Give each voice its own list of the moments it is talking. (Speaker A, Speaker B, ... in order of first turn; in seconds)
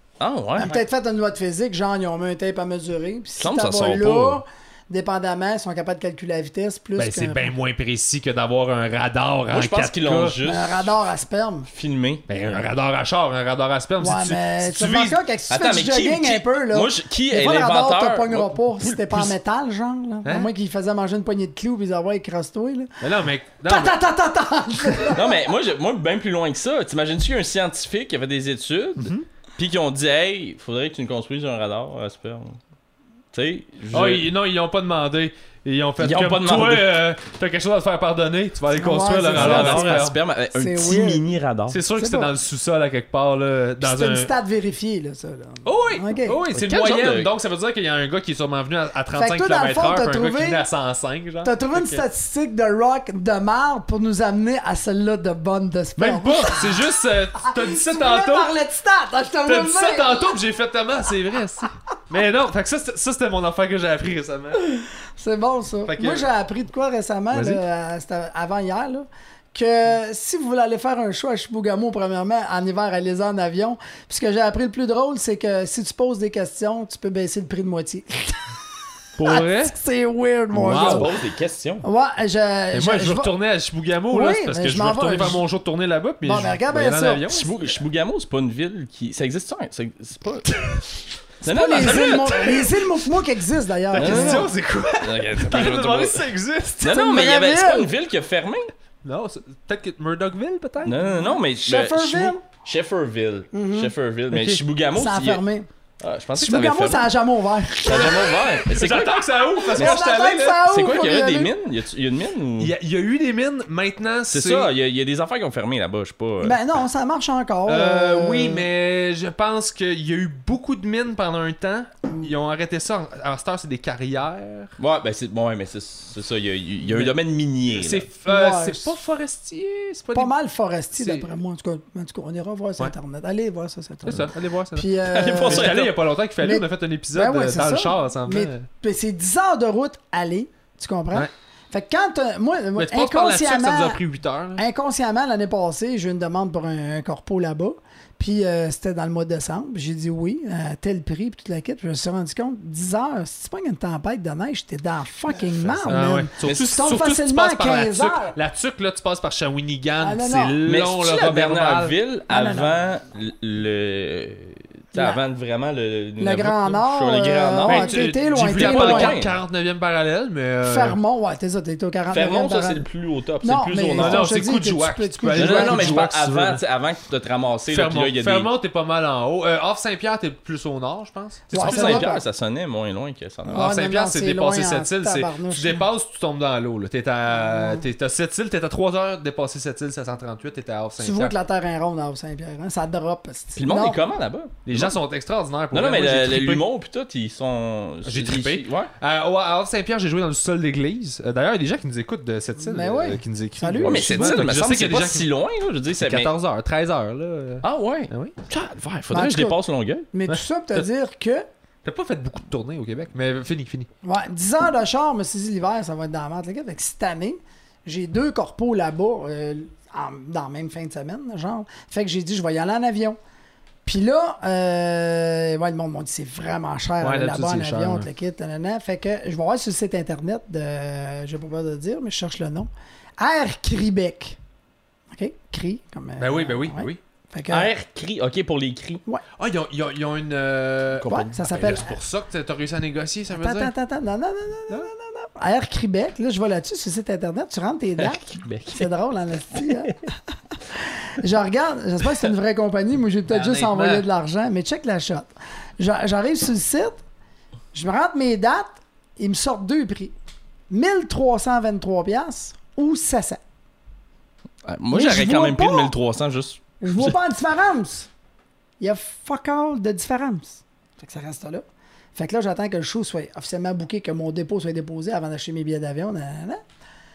Speaker A: 0.2-0.8, 3.4-4.4, 9.5-10.9, 11.7-12.3, 15.5-18.6, 25.1-32.6, 33.3-34.3, 36.0-37.0, 39.3-41.8, 46.5-47.3, 80.7-81.9, 87.3-90.5, 91.4-92.7, 94.0-96.2, 96.8-98.7, 100.8-105.4, 106.0-107.1, 107.8-110.0, 110.7-112.7, 114.3-116.6, 124.8-128.1, 135.1-135.9, 155.3-156.7, 160.7-168.0, 168.5-169.4, 172.1-174.2, 175.4-178.5, 181.5-183.6, 193.6-194.9, 195.7-198.9, 203.8-206.3, 207.6-210.1, 237.5-239.0, 248.0-248.4, 264.6-267.1
Speaker B: 0.6-7.5, 10.4-11.7, 14.0-23.0, 23.7-25.4, 38.7-41.2, 42.0-42.3, 43.8-46.4, 49.1-50.6, 51.4-56.8, 57.4-60.4, 64.6-78.4, 79.2-81.1, 81.8-83.3, 84.1-85.4, 86.2-87.5, 91.5-94.5, 96.8-97.9, 101.0-102.4, 103.5-103.9, 105.0-105.7, 106.4-108.6, 109.7-111.5, 116.4-118.7, 128.3-128.9, 130.1-144.0, 144.6-158.4, 160.0-160.6, 162.3-162.8, 164.9-165.2, 166.2-169.2, 170.6-172.8, 173.4-176.1, 181.5-182.2, 183.5-185.9, 187.3-187.8, 191.0-194.0, 202.6-204.4, 209.1-209.6, 210.1-211.4, 214.0-223.2, 223.8-234.4, 235.1-237.7, 241.0-242.0, 243.3-257.0, 257.7-260.1, 260.7-263.4, 264.9-265.9, 266.8-268.1, 268.8-276.6
Speaker C: 7.0-10.4, 12.3-15.2, 18.8-19.3, 23.0-24.0, 29.0-29.3, 33.9-40.2, 41.7-44.3, 45.6-52.0, 56.0-58.5, 59.5-64.7, 65.9-66.3, 67.3-67.6, 79.2-79.8, 80.5-81.1, 82.7-87.5, 90.6-90.8, 91.7-92.7, 93.9-97.0, 99.0-101.0, 104.3-104.6, 108.7-110.7, 112.6-114.7, 117.7-124.8, 127.7-130.3, 130.9-131.3, 134.1-134.9, 135.4-138.7, 142.8-144.6, 155.9-161.9, 167.7-171.0, 173.9-176.6, 177.7-182.1, 183.5-191.3, 194.7-196.7, 198.1-205.2, 205.9-208.3, 211.8-213.9, 227.0-228.1, 236.2-237.0, 239.4-243.7, 248.4-248.8, 253.3-254.1